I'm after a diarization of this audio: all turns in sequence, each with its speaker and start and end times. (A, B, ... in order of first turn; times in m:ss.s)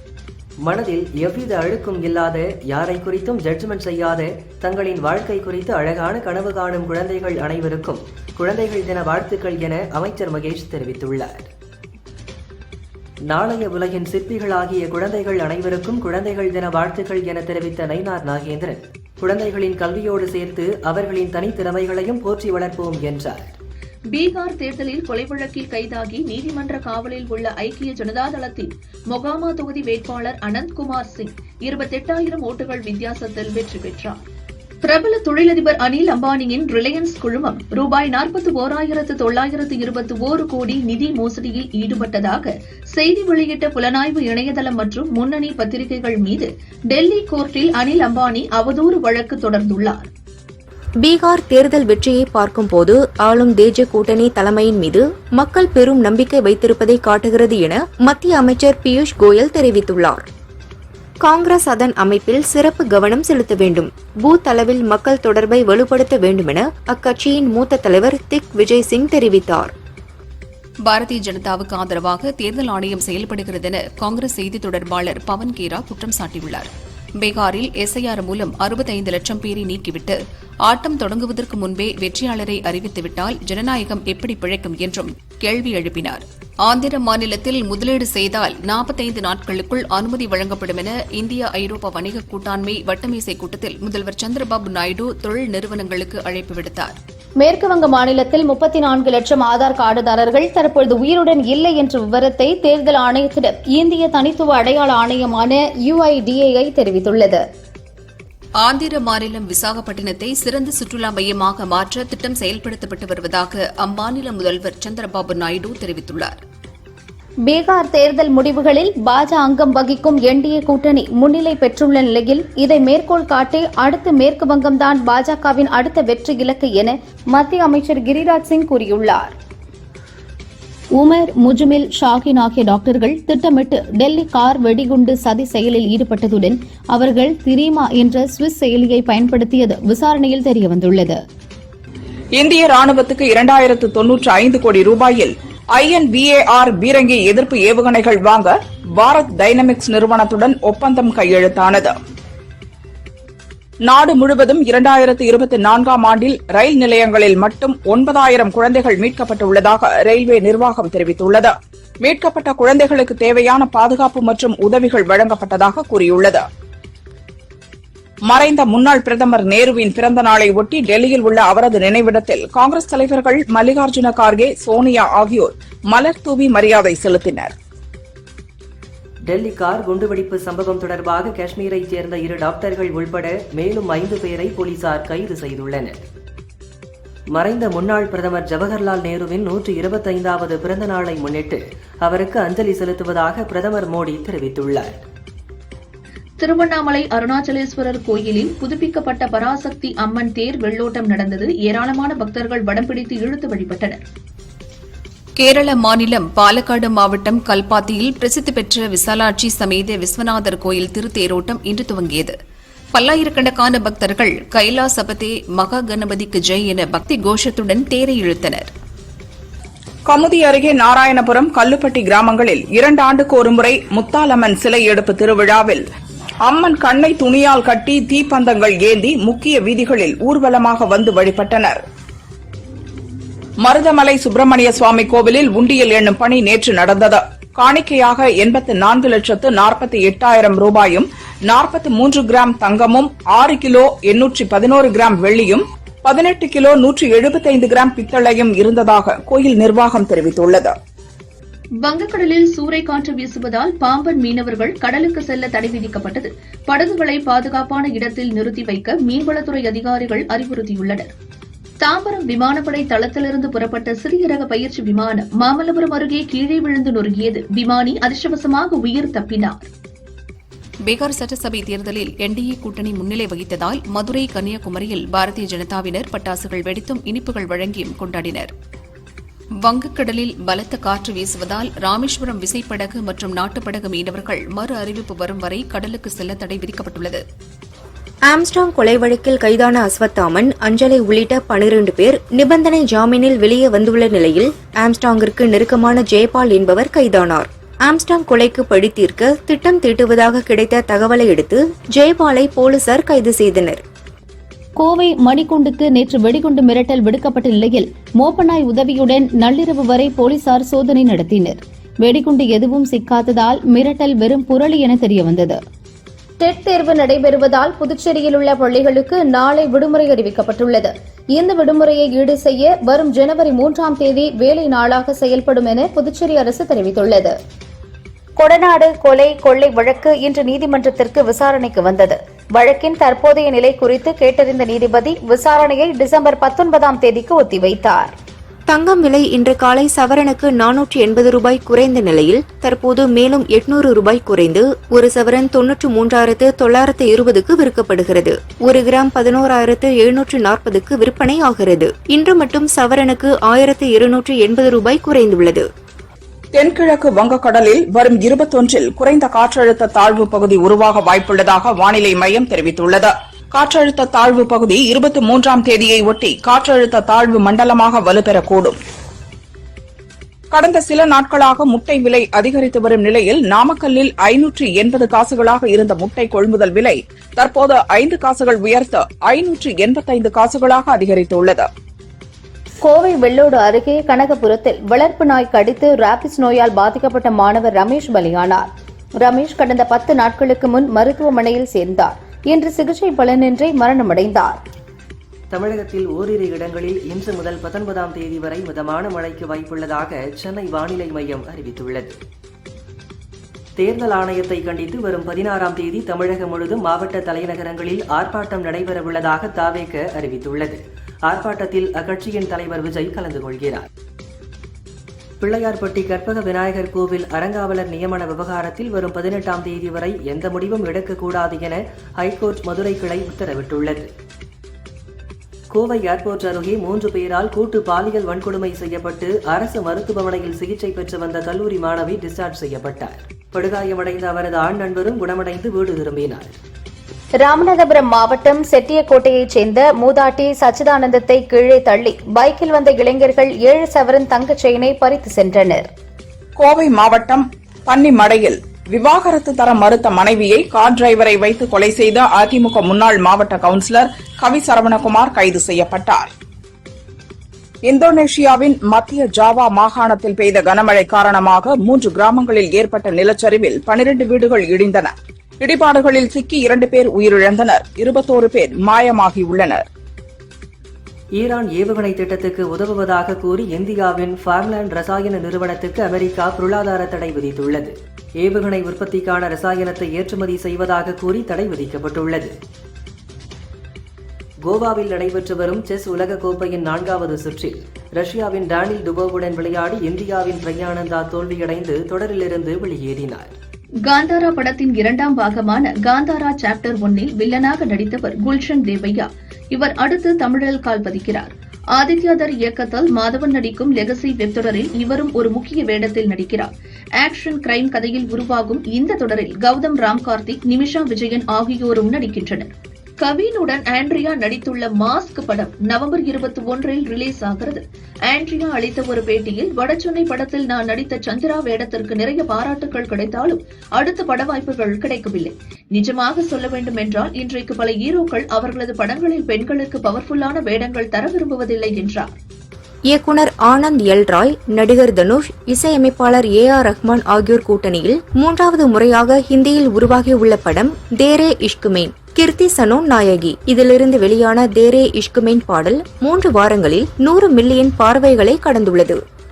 0:00.7-0:11.5 A
0:13.3-0:23.6 A
0:24.1-0:34.2 B
0:34.8-0:50.1 B
0:51.0-1:00.2 C
1:01.2-1:09.7 C
1:10.9-1:37.0 D
1:37.4-1:47.4 E
1:48.6-1:56.4 D
1:57.5-2:09.4 E
2:11.0-2:21.2 E
2:22.4-2:31.9 F
2:33.9-2:41.5 F
2:42.0-2:46.4 F
2:48.3-2:57.5 F
2:59.3-3:06.0 A
3:07.4-3:15.0 A
3:16.4-3:24.0 B
3:25.4-3:32.4 D
3:32.9-3:38.7 D
3:40.1-3:45.8 F
3:46.4-3:51.8 F
3:53.6-4:10.7 F
4:11.8-4:21.1 B
4:21.8-4:29.7 B
4:30.8-4:38.5 D
4:39.6-4:47.2 D
4:48.3-5:03.8 C
5:04.8-5:15.6 E
5:16.4-5:27.4 E
5:28.4-5:38.2 E
5:38.7-5:55.7 C
5:56.6-6:08.8 F
6:10.5-6:21.7 F
6:22.8-6:28.7 E
6:29.2-6:34.6 E
6:35.5-6:42.2 A
6:43.8-6:53.9 A
6:55.4-7:04.1 A
7:05.7-7:16.6 A
7:17.4-7:25.9 E
7:26.6-7:36.3 F
7:37.9-7:49.8 F
7:51.4-8:02.5 A
8:04.7-8:13.6 A
8:14.0-8:52.3 B
8:53.1-9:09.2 C